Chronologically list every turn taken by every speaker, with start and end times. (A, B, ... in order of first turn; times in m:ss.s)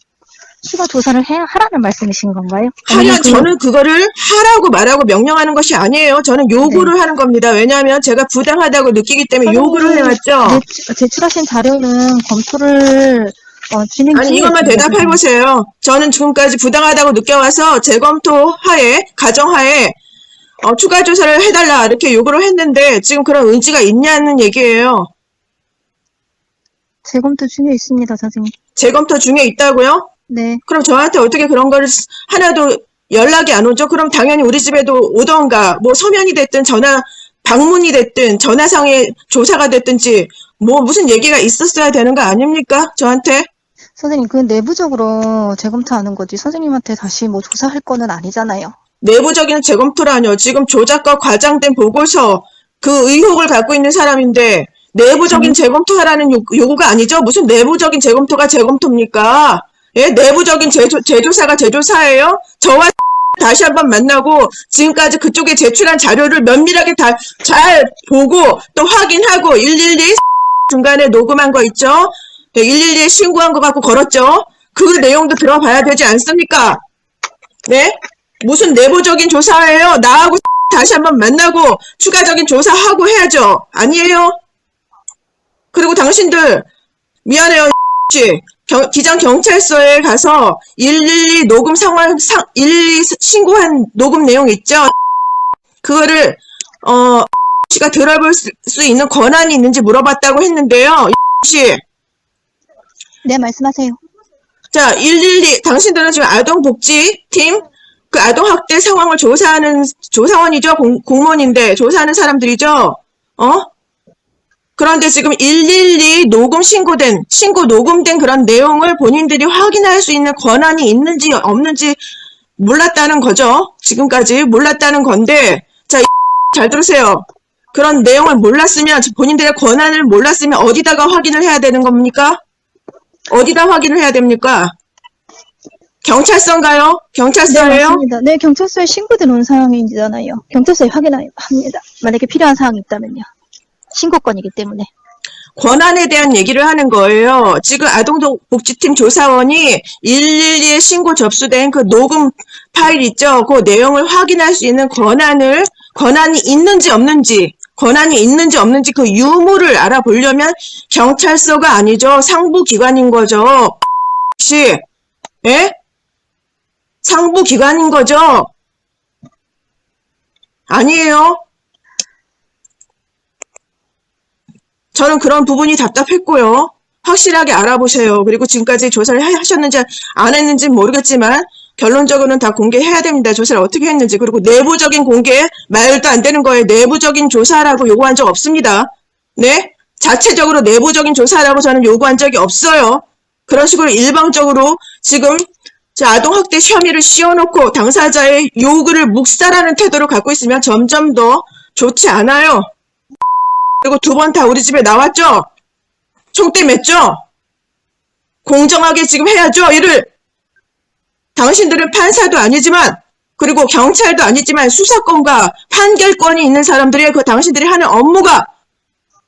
0:00.6-0:03.5 A
0:02.9-0:10.6 B
0:06.6-0:06.9 A
0:09.4-0:15.2 A
0:14.1-0:20.0 B
0:20.6-0:25.1 B
0:27.0-0:28.5 A
0:28.8-0:30.1 B
0:30.3-0:30.6 A
0:30.7-0:43.5 B
0:44.0-0:48.8 A
0:49.0-1:16.8 B
0:55.3-0:55.6 A
1:17.7-1:24.3 B
1:25.7-1:26.7 B
1:27.2-1:34.9 B
1:35.8-1:41.8 B
1:43.2-1:44.0 A
1:44.7-1:53.7 B
1:54.8-2:02.0 B
2:02.6-2:12.4 B
2:13.3-2:14.7 B
2:16.0-2:18.0 B
2:17.5-2:23.2 A
2:23.9-2:24.9 A
2:25.6-2:43.8 B
2:44.4-2:44.8 B
2:45.4-2:45.7 B
2:47.0-2:48.5 B
2:50.7-2:51.4 B
2:54.9-3:22.7 B
3:23.8-3:25.5 B
3:26.3-3:27.2 B
3:28.4-3:30.1 B
3:31.4-3:38.5 B